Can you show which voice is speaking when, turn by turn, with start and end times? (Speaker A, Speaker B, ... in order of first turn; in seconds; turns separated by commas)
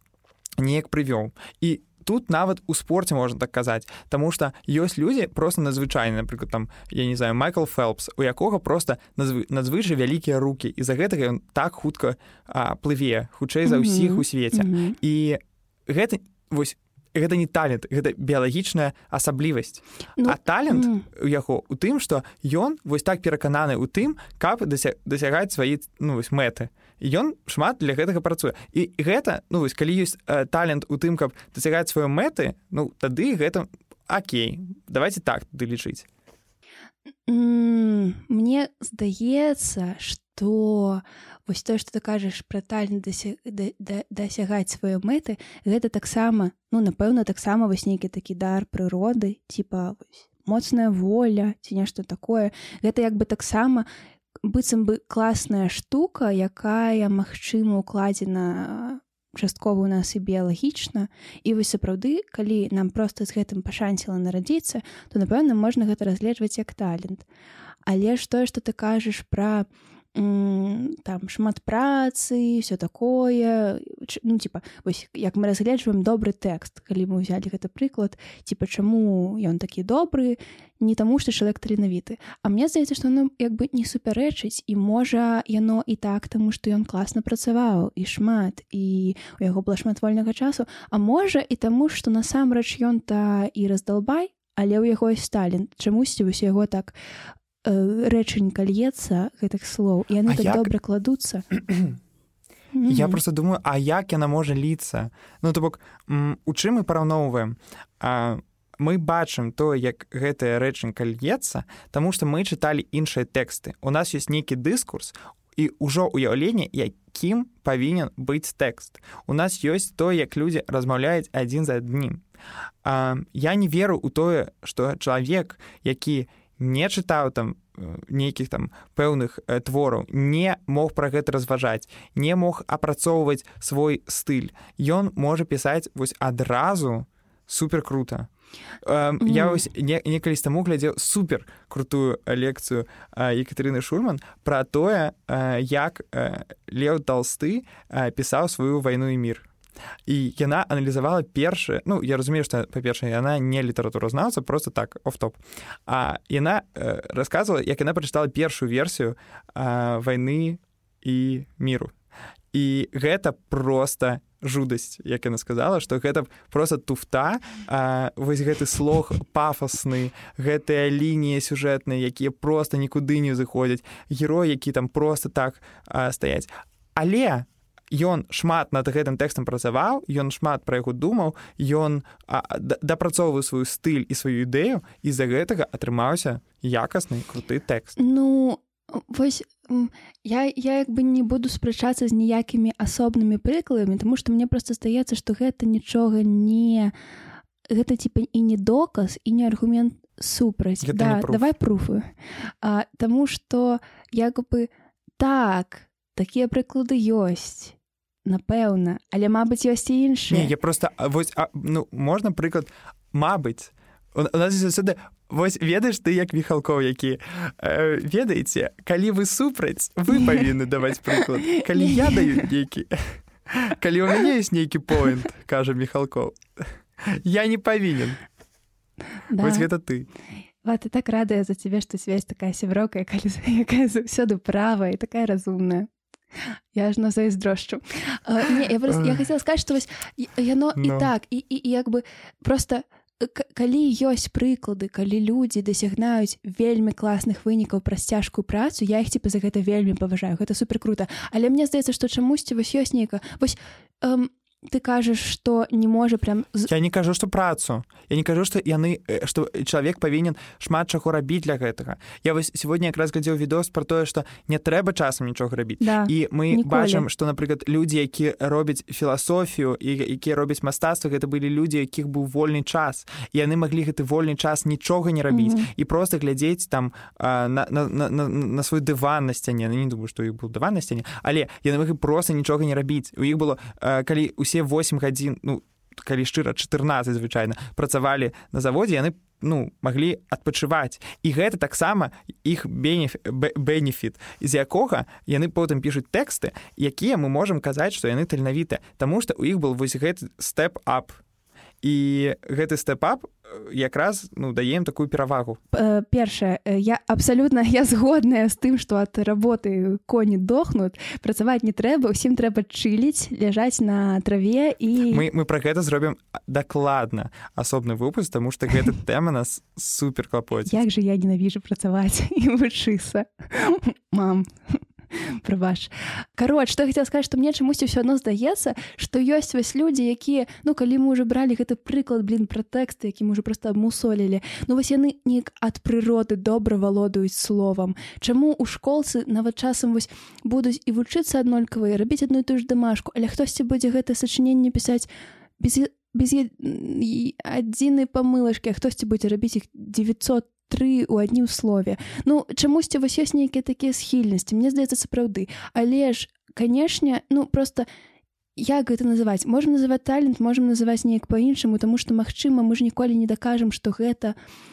Speaker A: 0.6-36.1, Speaker B: 13.7-15.0, Speaker B: 20.2-21.1, Speaker B: 37.3-53.9, Speaker B: 54.4-67.3, Speaker B: 67.9-97.0, Speaker B: 97.6-101.5, Speaker A: 100.3-100.7, Speaker B: 102.7-103.2, Speaker A: 102.9-122.2, Speaker A: 122.8-138.3, Speaker A: 138.8-149.5, Speaker B: 139.2-139.7, Speaker A: 150.1-161.9, Speaker A: 162.5-188.0, Speaker B: 188.0-196.9, Speaker B: 197.7-202.1, Speaker A: 200.8-201.4, Speaker B: 202.6-210.5, Speaker A: 210.3-226.4, Speaker B: 221.5-222.4, Speaker A: 227.0-228.2, Speaker B: 229.3-229.7, Speaker A: 229.4-230.1, Speaker B: 230.6-256.7, Speaker A: 240.8-241.1, Speaker A: 256.7-301.2, Speaker B: 265.8-267.1, Speaker B: 275.3-275.7, Speaker A: 301.8-305.6, Speaker B: 305.7-315.2, Speaker A: 315.1-320.8, Speaker B: 320.7-345.1, Speaker B: 345.6-357.9, Speaker B: 358.6-364.4